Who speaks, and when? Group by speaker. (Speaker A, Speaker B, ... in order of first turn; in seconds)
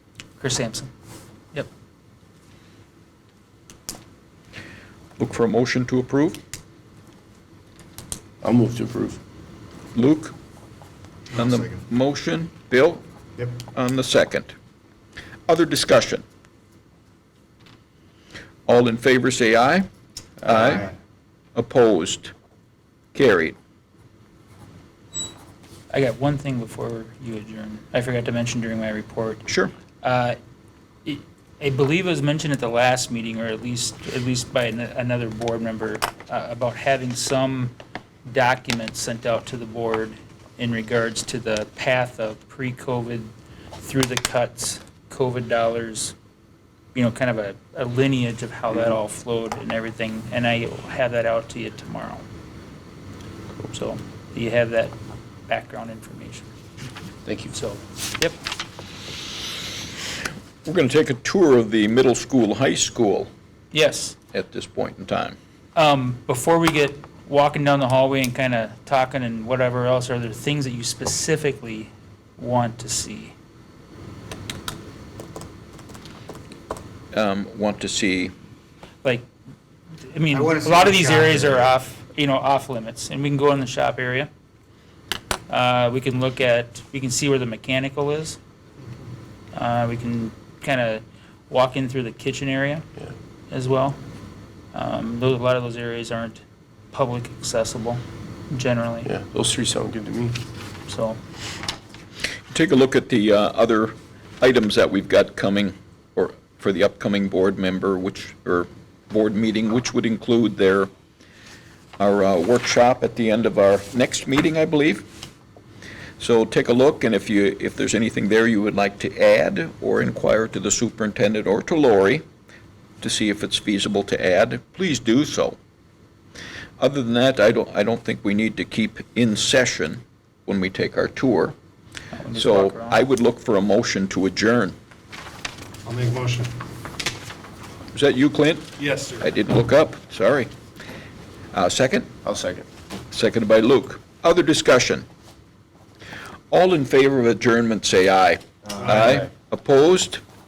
Speaker A: 0.4-0.9, 25.9-29.5, 30.0-30.4, 31.0-37.7, 38.3-46.1, 46.9-52.2, 53.7-54.9, 55.5-56.5, 57.5-58.4, 63.7-64.2, 65.7-73.3, 79.0-79.3, 80.0-84.3, 85.5-88.4, 89.5-92.8, 93.5-94.0, 94.7-99.1, 100.8-101.2, 132.1-133.0
Speaker B: 5.2-6.4, 9.9-10.3, 11.3-13.0, 13.6-14.5, 15.5-16.2, 18.6-19.9, 20.4-20.9, 21.6-22.3, 23.1-23.6, 29.5-29.7, 60.6-63.3, 64.3-65.4, 77.1-78.3, 102.5-110.9, 112.0-115.1, 116.2-122.2, 123.0-125.6, 126.8-131.6, 132.3-134.7, 137.9-140.5, 141.5-142.1, 143.1-145.1, 146.5-150.2
Speaker C: 8.4-9.2, 57.2-57.5, 99.0-100.3, 142.2-142.7
Speaker D: 11.4-11.7, 80.3-81.7, 135.8-136.5, 138.8-139.3